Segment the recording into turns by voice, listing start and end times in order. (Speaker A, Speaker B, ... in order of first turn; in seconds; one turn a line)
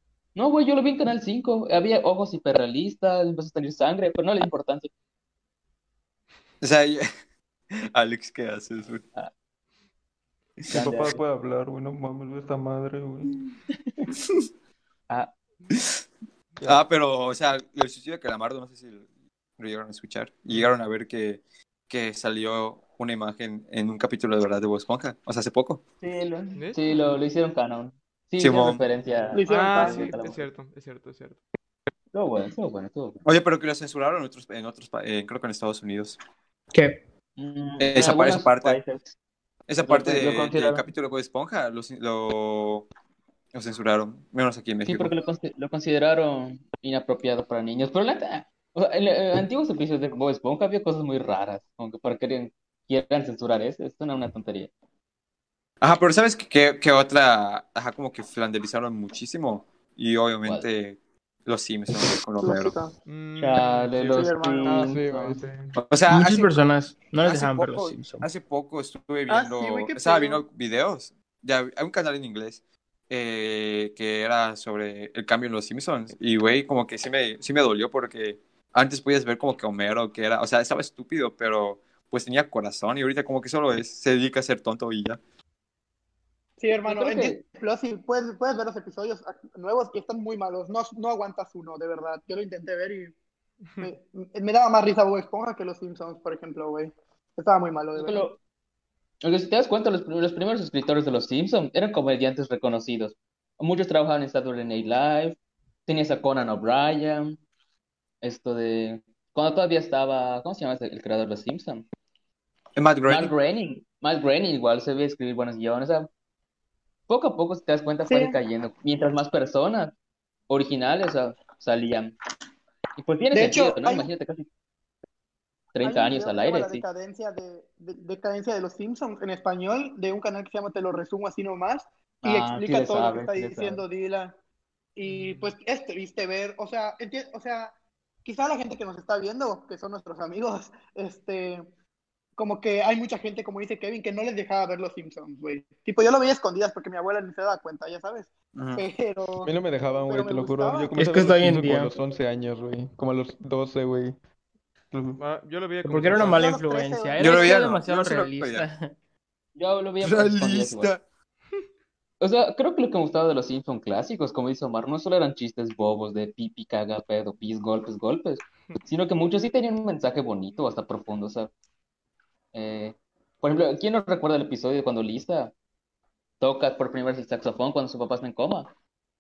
Speaker A: 0.3-4.9
Speaker B: 6.6-7.1
Speaker B: 7.7-9.0
Speaker A: 10.7-11.2
Speaker C: 10.7-13.4
Speaker B: 15.7-16.0
Speaker B: 16.6-19.1
Speaker B: 19.6-25.8
Speaker A: 26.0-30.5
Speaker D: 26.6-26.8
Speaker B: 28.4-28.8
Speaker E: 29.3-30.1
Speaker D: 29.5-31.4
Speaker A: 32.1-33.2
Speaker B: 33.2-36.2
Speaker F: 36.7-37.0
Speaker A: 37.4-39.1
Speaker B: 37.8-38.8
Speaker B: 39.7-42.9
Speaker A: 39.8-40.9
Speaker B: 43.5-45.1
Speaker A: 44.8-54.7
Speaker B: 55.8-62.8
Speaker A: 60.4-60.7
Speaker E: 62.4-62.9
Speaker D: 63.1-64.4
Speaker A: 63.4-65.4
Speaker E: 64.1-64.8
Speaker C: 64.7-65.8
Speaker B: 65.8-66.5
Speaker F: 66.1-68.3
Speaker B: 67.2-85.2
Speaker E: 69.3-70.4
Speaker E: 86.6-93.1
Speaker A: 86.8-87.4
Speaker E: 93.8-98.3
Speaker A: 98.0-98.4
Speaker A: 99.2-107.4
Speaker A: 108.2-111.8
Speaker B: 112.8-113.3
Speaker A: 113.1-116.1
Speaker A: 117.1-120.0
Speaker E: 118.1-118.4
Speaker A: 120.5-122.2
Speaker A: 123.0-124.5
Speaker E: 123.3-124.1
Speaker A: 125.7-126.8
Speaker E: 125.8-134.4
Speaker A: 132.2-133.8
Speaker E: 135.0-141.7
Speaker D: 135.0-135.6
Speaker E: 142.4-149.5
Speaker B: 148.6-148.8
Speaker C: 149.4-154.2
Speaker E: 150.1-150.9
Speaker F: 151.0-151.9
Speaker C: 154.9-155.2
Speaker D: 155.2-156.4
Speaker F: 155.8-158.9
Speaker E: 156.2-157.8
Speaker B: 157.2-158.7
Speaker A: 159.6-160.9
Speaker B: 160.0-161.0
Speaker A: 162.2-171.5
Speaker A: 172.5-175.5
Speaker A: 176.4-178.7